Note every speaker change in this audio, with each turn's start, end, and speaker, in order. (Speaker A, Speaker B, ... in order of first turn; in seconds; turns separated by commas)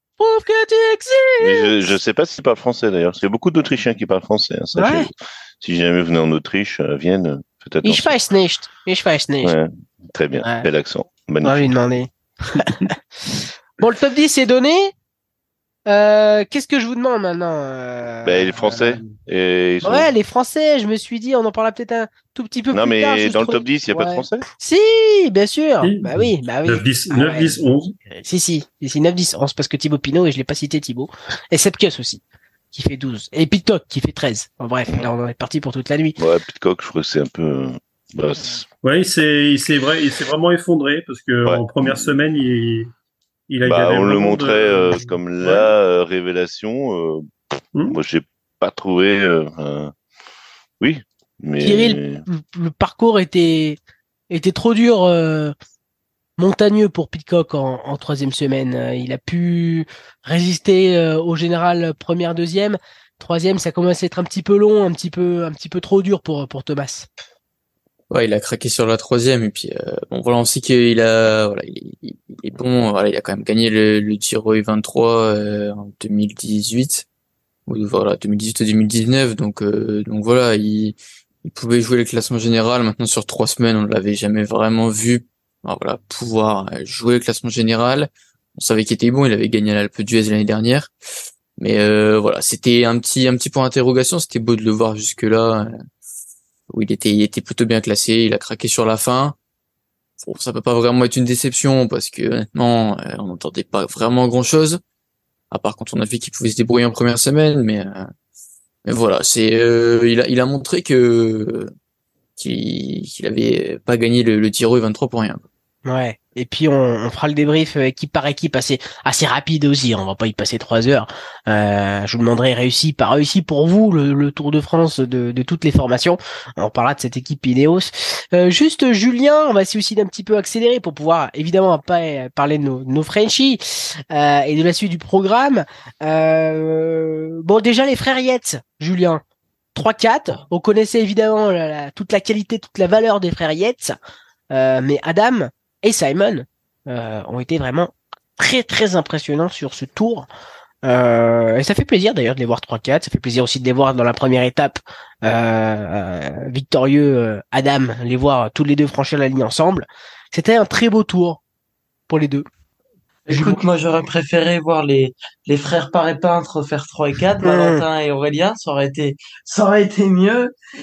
Speaker A: 0.2-1.9, Speaker B: 1.4-8.1, Speaker A: 4.7-5.1, Speaker A: 7.8-9.5, Speaker B: 9.4-11.7, Speaker A: 10.4-10.7, Speaker A: 11.4-14.9, Speaker A: 15.9-19.1, Speaker B: 18.2-20.1, Speaker A: 19.8-27.6, Speaker B: 22.7-24.5, Speaker C: 25.8-27.9, Speaker A: 28.1-36.2, Speaker B: 36.2-38.7, Speaker C: 38.8-42.9, Speaker B: 41.4-42.1, Speaker C: 43.5-45.7, Speaker B: 43.6-49.9, Speaker B: 50.8-52.2, Speaker A: 51.6-53.8, Speaker A: 54.3-55.5, Speaker A: 56.4-67.1, Speaker D: 68.1-77.0, Speaker D: 77.7-90.9, Speaker D: 91.6-95.7, Speaker D: 96.7-99.3, Speaker D: 100.2-104.8, Speaker D: 105.5-108.1, Speaker D: 108.8-111.7, Speaker D: 112.4-115.4, Speaker A: 115.8-139.2, Speaker A: 139.7-144.0, Speaker A: 144.5-150.3, Speaker A: 150.8-161.4, Speaker A: 162.1-162.4, Speaker A: 163.3-163.6, Speaker E: 163.3-170.5, Speaker A: 167.4-167.8